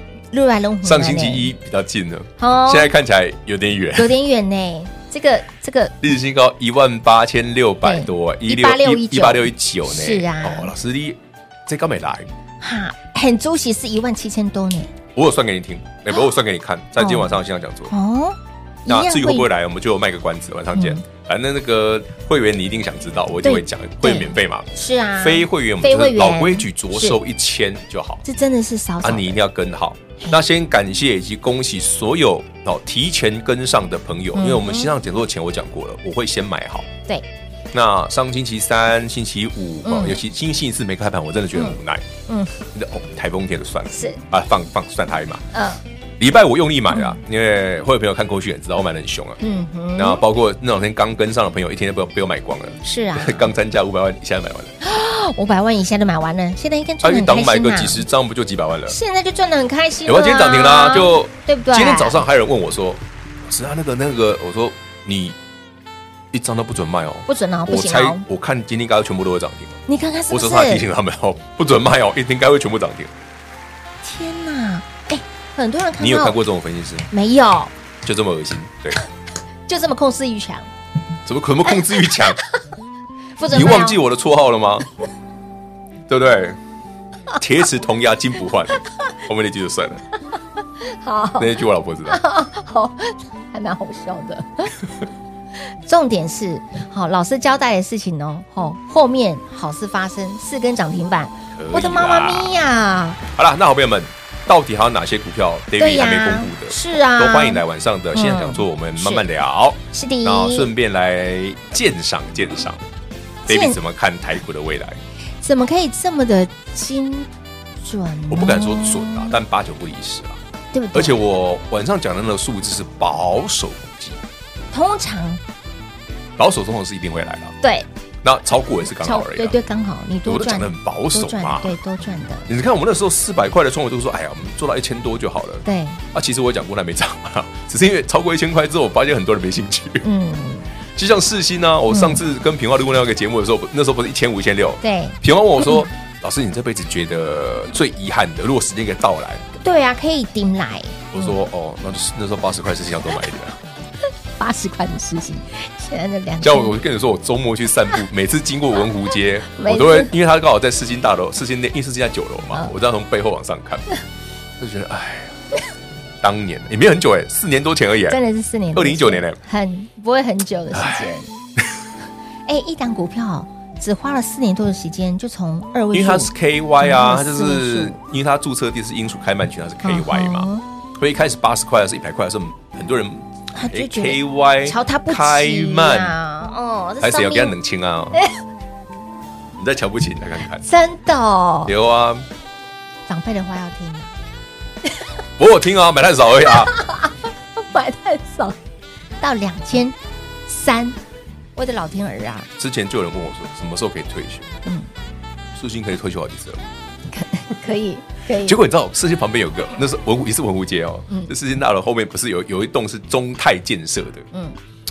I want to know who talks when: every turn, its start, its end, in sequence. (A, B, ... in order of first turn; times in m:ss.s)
0:00.3-0:01.5 A
0:00.8-0:04.1 B
0:02.4-0:02.9 A
0:04.0-0:05.9 A
0:06.0-0:12.3 B
0:07.8-0:10.7 A
0:12.6-0:14.9 A
0:15.1-0:17.9 B
0:17.0-0:17.4 A
0:17.9-0:19.5 A
0:18.9-0:28.2 B
0:20.7-0:21.0 A
0:23.4-0:27.2 A
0:28.2-0:29.4 A
0:29.0-0:36.9 B
0:34.3-0:34.9 A
0:37.7-0:42.0 B
0:39.8-0:40.2 A
0:41.5-0:42.5 A
0:42.7-0:45.4 B
0:43.9-0:44.2 A
0:45.5-0:45.8 A
0:46.2-0:49.4 B
0:46.9-0:47.2 A
0:49.4-0:50.2 A
0:50.0-0:54.7 B
0:52.8-0:53.5 A
0:54.8-0:58.0 A
0:57.0-0:59.0 B
0:58.9-1:02.2 A
1:00.0-1:05.4 B
1:06.3-1:09.8 B
1:07.3-1:08.2 A
1:09.9-1:10.8 A
1:10.3-1:13.1 B
1:14.0-1:16.4 A
1:16.0-1:17.1 B
1:17.1-1:17.7 A
1:18.0-1:19.0 B
1:19.7-1:20.7 A
1:21.2-1:22.4 B
1:22.0-1:22.5 A
1:23.4-1:24.0 A
1:23.5-1:24.9 B
1:26.1-1:26.6 B
1:27.4-1:30.0 B
1:30.8-1:31.5 A
1:31.4-1:32.2 B
1:32.1-1:34.7 A
1:35.8-1:43.2 A
1:41.6-1:42.6 B
1:43.3-1:52.8 B
1:45.8-1:47.6 A
1:48.1-1:49.2 A
1:49.9-1:50.7 A
1:53.5-1:53.8 A
1:53.5-1:55.0 B
1:55.4-1:57.3 A
1:57.8-1:59.4 A
1:58.3-2:00.4 B
2:00.7-2:01.2 A
2:00.9-2:04.2 B
2:04.7-2:05.4 A
2:06.4-2:07.5 B
2:07.6-2:07.9 A
2:08.2-2:09.6 B
2:09.0-2:12.5 A
2:10.2-2:11.8 B
2:12.5-2:20.0 B
2:15.6-2:16.0 A
2:20.0-2:20.7 A
2:20.9-2:29.4 B
2:21.9-2:22.2 A
2:24.8-2:25.9 A
2:29.6-2:31.3 A
2:31.1-2:33.6 B
2:34.4-2:36.8 A
2:36.4-2:44.0 B
2:39.5-2:40.1 A
2:44.6-2:45.4 B
2:46.2-2:48.2 B
2:48.1-2:51.3 A
2:48.7-2:49.4 B
2:50.7-2:51.7 B
2:52.5-2:58.0 A
2:55.9-3:06.2 B
2:59.8-3:00.6 A
3:03.5-3:07.5 A
3:07.0-3:08.2 B
3:09.6-3:10.6 B
3:10.6-3:11.7 A
3:11.7-3:12.2 B
3:13.1-3:14.1 A
3:15.4-3:16.7 B
3:16.5-3:18.6 A
3:19.2-3:20.0 A
3:20.5-3:21.0 A
3:21.6-3:22.5 A
3:22.6-3:24.5 B
3:25.5-3:26.6 B
3:27.1-3:28.6 A
3:28.4-3:34.3 B